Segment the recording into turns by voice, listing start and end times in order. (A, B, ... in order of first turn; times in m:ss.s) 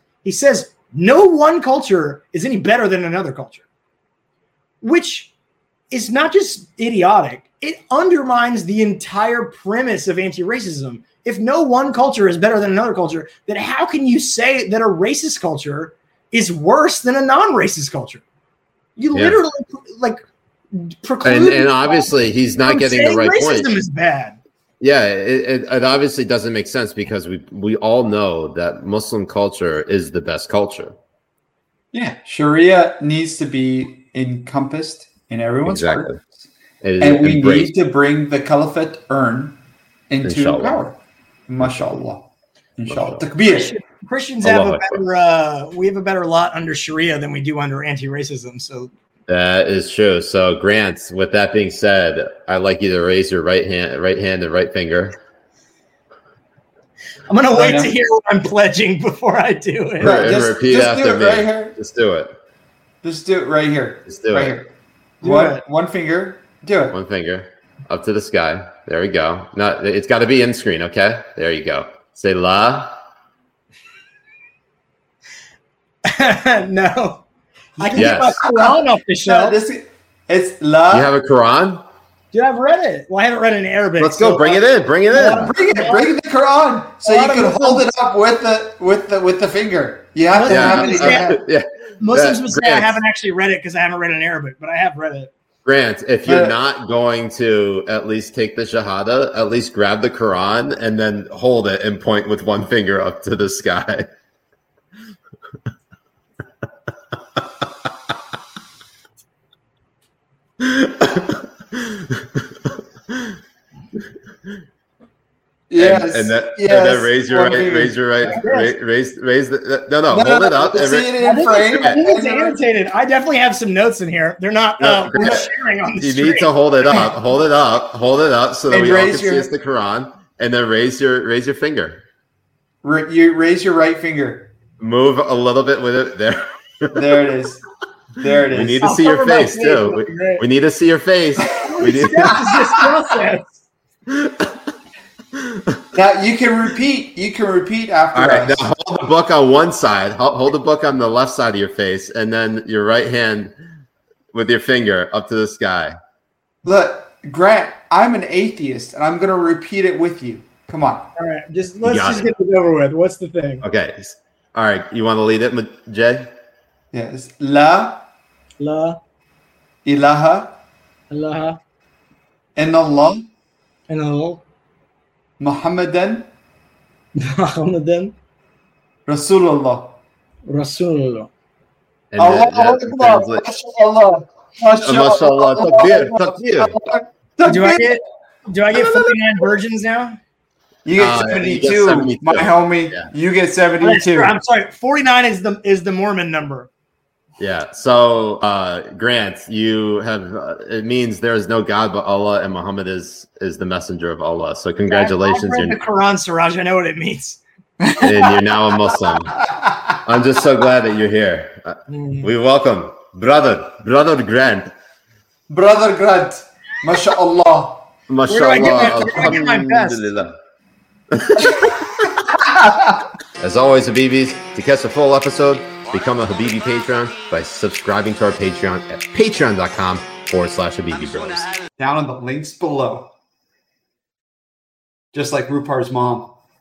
0:00.2-0:03.6 A
0:04.8-0:05.3 A
0:05.9-0:18.2 A
0:19.0-0:20.2 A
0:19.1-0:19.4 B
0:20.7-0:22.1 A
0:21.2-0:23.7 B
0:22.6-0:24.4 A
0:24.8-0:30.9 B
0:31.9-0:36.3 C
0:35.6-0:36.2 B
0:36.8-0:37.7 B
0:37.0-0:43.7 C
0:40.2-0:40.8 B
0:42.9-0:43.2 B
0:43.4-0:48.9 A
0:44.4-0:45.0 B
0:49.3-0:55.2 B
0:57.3-1:00.2 A
0:57.5-0:57.9 C
1:00.0-1:01.8 C
1:00.0-1:02.3 B
1:03.0-1:07.0 C
1:04.0-1:04.6 B
1:05.2-1:05.6 A
1:06.9-1:12.9 B
1:16.1-1:17.2 A
1:17.8-1:19.6 A
1:17.8-1:21.1 C
1:17.9-1:18.4 B
1:20.9-1:21.8 B
1:22.3-1:24.6 A
1:24.0-1:25.5 B
1:25.1-1:26.0 A
1:25.3-1:31.4 C
1:27.0-1:27.9 A
1:30.3-1:31.4 A
1:30.4-1:33.0 B
1:32.0-1:35.3 A
1:35.6-1:44.0 B
1:36.3-1:36.6 C
1:50.6-1:52.4 B
1:55.7-1:58.0 C
1:55.8-2:01.2 B
1:58.2-1:58.7 A
2:00.1-2:02.6 C
2:01.2-2:06.5 A
2:04.8-2:05.5 B
2:06.0-2:12.0 B
2:08.7-2:09.5 C
2:12.8-2:14.5 C
2:14.8-2:17.0 B
2:16.9-2:17.6 C
2:18.2-2:18.8 C
2:18.4-2:22.4 B
2:18.8-2:20.4 A
2:21.6-2:23.6 A
2:22.1-2:22.5 C
2:24.1-2:24.6 B
2:25.4-2:25.8 B
2:25.9-2:28.7 C
2:28.1-2:33.5 B
2:34.3-2:35.9 B
2:36.6-2:41.1 C
2:41.2-2:43.6 A
2:41.8-2:42.3 B
2:43.6-2:46.3 B
2:46.9-2:48.0 C
2:48.6-2:49.0 A
2:49.8-2:50.6 C
2:51.1-2:51.6 A
2:52.6-2:53.3 C
2:53.9-2:54.4 A
2:55.4-2:56.3 C
2:57.2-2:58.1 A
2:59.0-3:00.0 C
3:00.4-3:01.3 A
3:02.1-3:03.4 B
3:02.2-3:07.9 C
3:04.7-3:06.7 B
3:07.4-3:10.2 A
3:08.7-3:09.2 C
3:10.8-3:14.4 C
3:10.9-3:13.1 B
3:13.8-3:16.7 A
3:17.4-3:25.8 B
3:24.8-3:27.4 A
3:27.8-3:28.4 C
3:28.0-3:29.4 B
3:29.4-3:29.8 C
3:30.0-3:34.7 B
3:31.9-3:32.3 A
3:35.5-3:37.9 C
3:38.1-3:40.3 B
3:38.3-3:40.0 A
3:39.0-3:39.3 C
3:41.1-3:42.1 B
3:42.4-3:42.9 C
3:43.4-3:51.5 B
3:51.8-3:53.1 C
3:55.1-3:56.3 C